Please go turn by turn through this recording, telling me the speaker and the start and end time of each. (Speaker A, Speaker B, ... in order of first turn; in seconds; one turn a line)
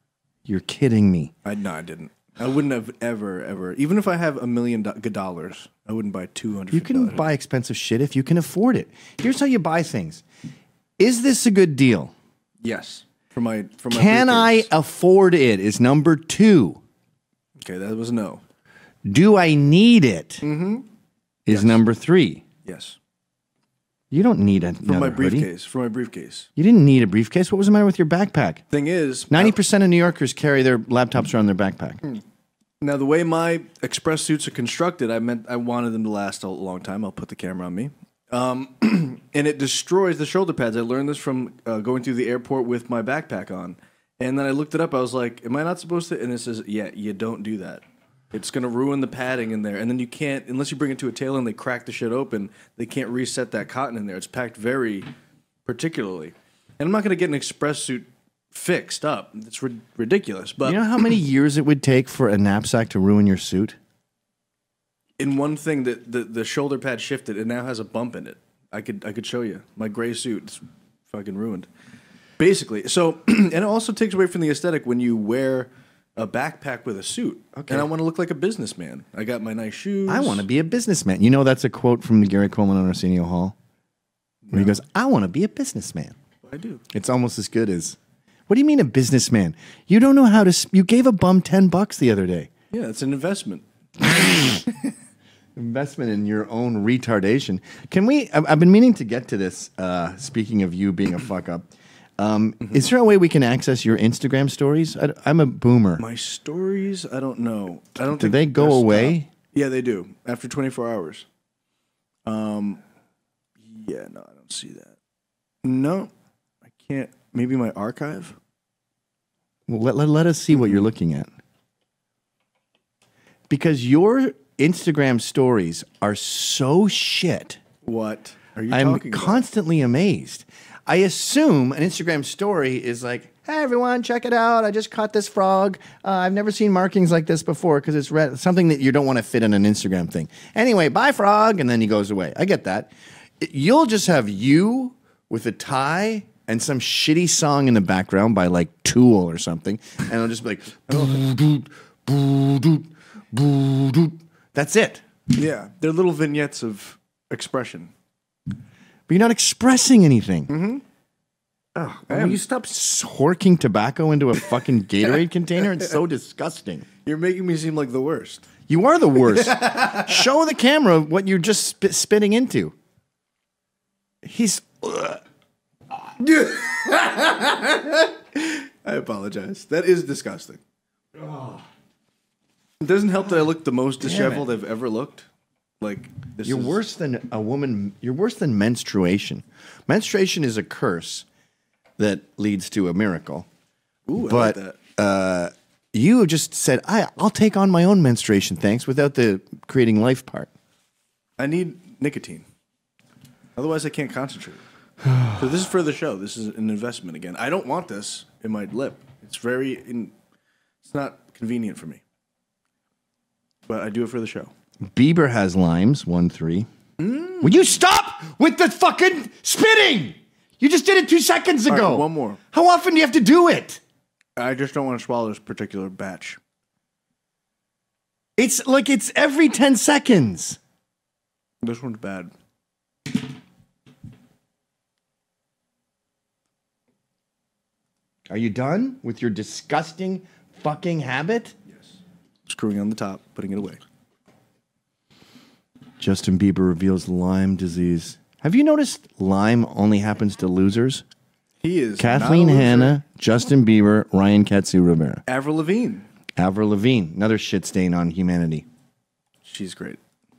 Speaker A: 0.5-1.3
Speaker B: 1.4-7.2
Speaker A: 6.7-10.2
Speaker A: 11.0-12.1
Speaker B: 12.6-14.7
Speaker A: 13.9-16.8
Speaker B: 17.6-18.4
Speaker A: 19.1-20.5
Speaker B: 20.4-20.9
Speaker A: 21.5-22.4
Speaker B: 21.5-21.8
Speaker B: 22.6-23.0
Speaker A: 24.1-25.5
Speaker B: 24.9-26.5
Speaker A: 26.6-28.6
Speaker B: 28.7-29.6
Speaker A: 29.3-32.1
Speaker B: 32.8-55.1
Speaker B: 55.7-60.8
Speaker A: 60.6-63.8
Speaker B: 65.2-71.7
Speaker B: 72.4-80.5
Speaker A: 77.6-77.9
Speaker A: 80.1-83.5
Speaker B: 84.5-84.8
Speaker A: 84.5-86.2
Speaker B: 86.4-86.8
Speaker A: 86.9-88.0
Speaker A: 88.5-92.5
Speaker B: 92.7-94.7
Speaker A: 94.1-94.6
Speaker A: 95.6-101.7
Speaker A: 102.2-106.0
Speaker B: 106.0-111.3
Speaker A: 108.2-109.3
Speaker B: 112.3-112.8
Speaker B: 113.6-115.0
Speaker B: 115.6-116.1
Speaker B: 116.7-118.4
Speaker A: 119.7-121.3
Speaker A: 123.5-127.6
Speaker B: 127.8-129.4
Speaker A: 128.7-155.1
Speaker B: 150.9-151.2
Speaker B: 155.3-157.9
Speaker A: 159.1-160.5
Speaker B: 160.5-160.8
Speaker A: 161.8-166.9
Speaker B: 162.1-162.4
Speaker B: 167.1-168.5
Speaker A: 168.7-172.7
Speaker B: 169.2-170.3
Speaker A: 174.2-175.2
Speaker B: 176.2-180.6
Speaker A: 181.2-181.6
Speaker B: 182.8-185.3
Speaker A: 184.0-184.5
Speaker B: 185.8-186.8
Speaker A: 186.4-191.3
Speaker A: 192.0-193.5
Speaker B: 194.1-194.8
Speaker A: 194.3-200.5
Speaker B: 201.4-202.5
Speaker B: 203.6-204.6
Speaker B: 205.3-210.1
Speaker B: 210.8-212.0
Speaker B: 213.7-214.5
Speaker A: 214.9-216.7
Speaker B: 217.0-217.7
Speaker A: 217.4-223.8
Speaker B: 221.7-222.4
Speaker B: 224.4-226.4
Speaker A: 228.4-230.6
Speaker B: 231.6-232.3
Speaker A: 238.3-241.6
Speaker B: 242.5-243.8
Speaker A: 246.0-251.0
Speaker B: 251.6-253.0
Speaker A: 252.0-255.2
Speaker B: 255.3-256.1
Speaker A: 256.4-258.6
Speaker B: 259.4-260.0